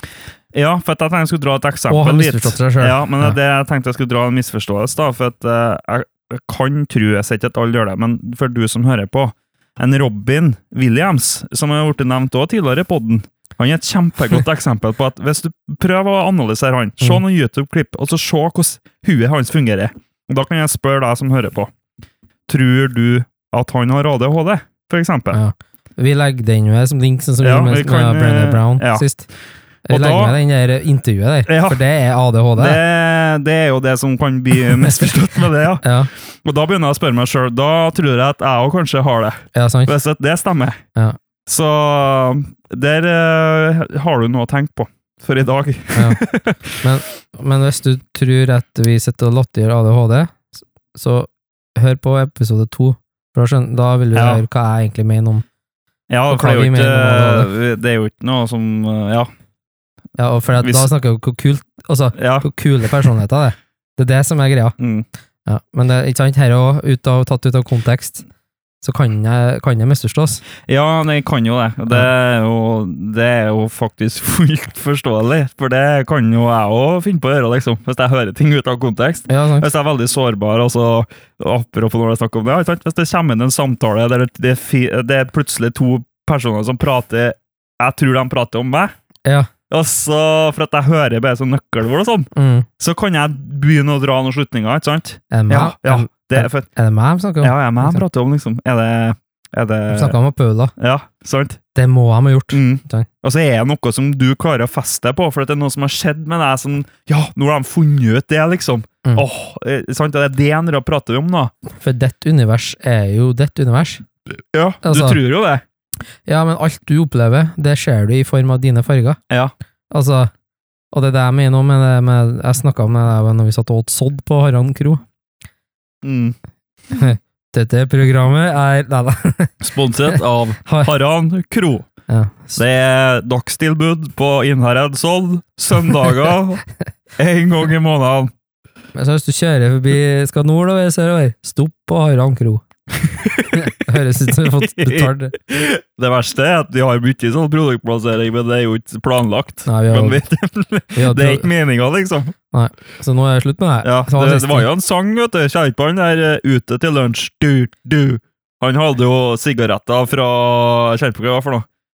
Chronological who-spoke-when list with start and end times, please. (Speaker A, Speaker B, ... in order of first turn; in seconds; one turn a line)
Speaker A: 0.5-21.7
Speaker B: 1.9-3.4
Speaker A: 22.5-25.4
Speaker B: 25.3-29.3
Speaker A: 27.4-29.0
Speaker B: 29.9-32.8
Speaker A: 29.9-30.4
Speaker A: 31.5-31.8
Speaker A: 32.5-40.8
Speaker B: 34.7-35.0
Speaker B: 35.8-36.1
Speaker B: 39.5-39.9
Speaker A: 41.5-46.8
Speaker B: 45.9-46.2
Speaker B: 46.8-55.4
Speaker A: 54.1-54.4
Speaker A: 56.1-59.3
Speaker B: 56.3-57.5
Speaker B: 60.2-64.8
Speaker A: 60.6-60.9
Speaker A: 62.1-62.5
Speaker A: 64.8-65.0
Speaker B: 65.5-68.2
Speaker B: 68.8-70.4
Speaker A: 70.6-88.9
Speaker B: 79.3-79.7
Speaker A: 89.7-92.3
Speaker B: 92.3-92.7
Speaker A: 92.8-96.7
Speaker B: 95.3-98.0
Speaker A: 97.4-100.2
Speaker B: 99.9-100.7
Speaker A: 100.8-101.6
Speaker B: 101.7-103.1
Speaker A: 102.5-111.5
Speaker B: 111.8-114.0
Speaker A: 114.5-115.6
Speaker B: 114.8-115.2
Speaker B: 116.2-119.2
Speaker B: 119.9-120.3
Speaker B: 120.9-125.0
Speaker A: 126.0-126.3
Speaker B: 126.9-130.9
Speaker A: 129.6-131.9
Speaker B: 132.1-132.6
Speaker A: 132.6-136.6
Speaker A: 137.2-138.3
Speaker B: 138.9-142.6
Speaker A: 143.0-143.7
Speaker B: 143.5-145.3
Speaker A: 144.4-152.3
Speaker B: 149.7-150.2
Speaker B: 150.9-151.5
Speaker B: 152.5-154.7
Speaker A: 153.8-161.7